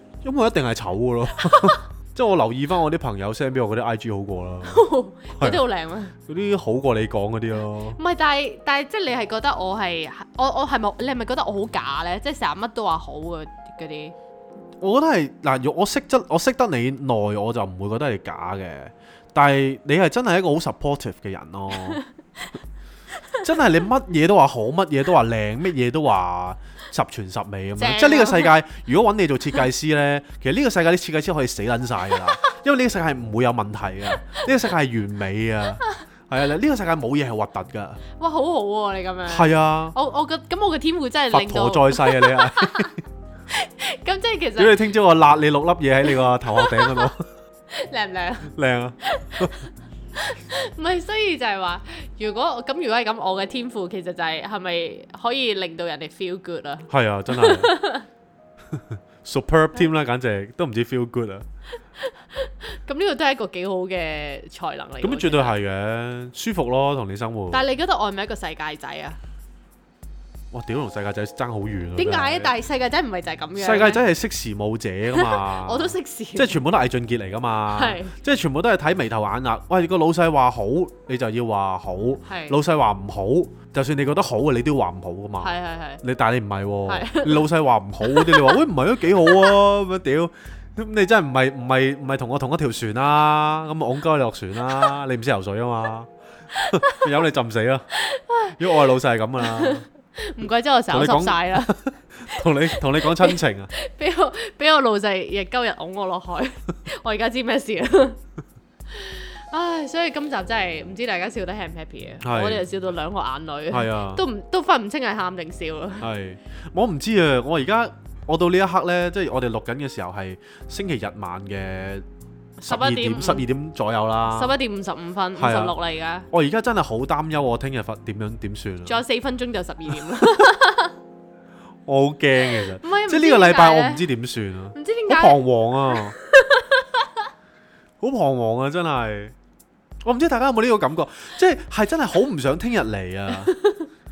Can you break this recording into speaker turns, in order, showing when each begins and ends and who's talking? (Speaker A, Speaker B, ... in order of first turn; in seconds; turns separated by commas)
Speaker A: 0.2-4.8, Speaker B: 1.4-1.8, Speaker B: 4.6-6.1, Speaker A: 5.3-5.6, Speaker A: 6.2-8.0, Speaker B: 8.0-14.1, Speaker A: 14.8-22.0, Speaker B: 21.7-22.1, Speaker A: 23.4-38.0, Speaker B: 27.8-28.5, Speaker B: 32.1-32.3, Speaker B: 34.1-34.4, Speaker B: 38.1-42.9, Speaker A: 39.3-40.0, Speaker A: 41.3-43.0, Speaker B: 43.5-44.8, Speaker A: 44.6-47.3, Speaker B: 46.0-47.1, Speaker B: 47.7-48.5, Speaker A: 48.5-49.7, Speaker B: 49.0-58.1, Speaker A: 56.9-57.7, Speaker A: 58.7-61.5, Speaker B: 62.0-65.6, Speaker A: 65.0-67.6, Speaker B: 67.5-69.2, Speaker A: 70.5-72.5, Speaker B: 72.0-74.0, Speaker A: 73.6-96.1, Speaker B: 75.1-76.6, Speaker B: 77.7-78.1, Speaker B: 82.2-82.6, Speaker B: 85.4-86.0, Speaker B: 86.9-87.5, Speaker B: 88.0-88.6, Speaker B: 89.2-89.5, Speaker B: 94.7-94.9, Speaker B: 96.5-97.0, Speaker A: 96.6-97.9, Speaker B: 97.9-98.8, Speaker A: 98.5-99.8, Speaker B: 99.4-101.7, Speaker A: 100.9-103.7, Speaker B: 102.3-108.2, Speaker B: 108.9-116.1, Speaker A: 112.2-112.6, Speaker A: 113.7-114.2, Speaker A: 116.0-122.0, Speaker B: 122.6-123.5, Speaker A: 122.7-124.5, Speaker B: 124.2-126.3, Speaker A: 125.4-125.7, Speaker A: 126.3-129.0, Speaker B: 128.8-130.9, Speaker A: 130.1-130.4, Speaker A: 131.8-136.2, Speaker B: 132.5-134.1, Speaker B: 134.7-137.3, Speaker A: 138.0-139.3, Speaker A: 140.0-143.6, Speaker B: 143.4-143.9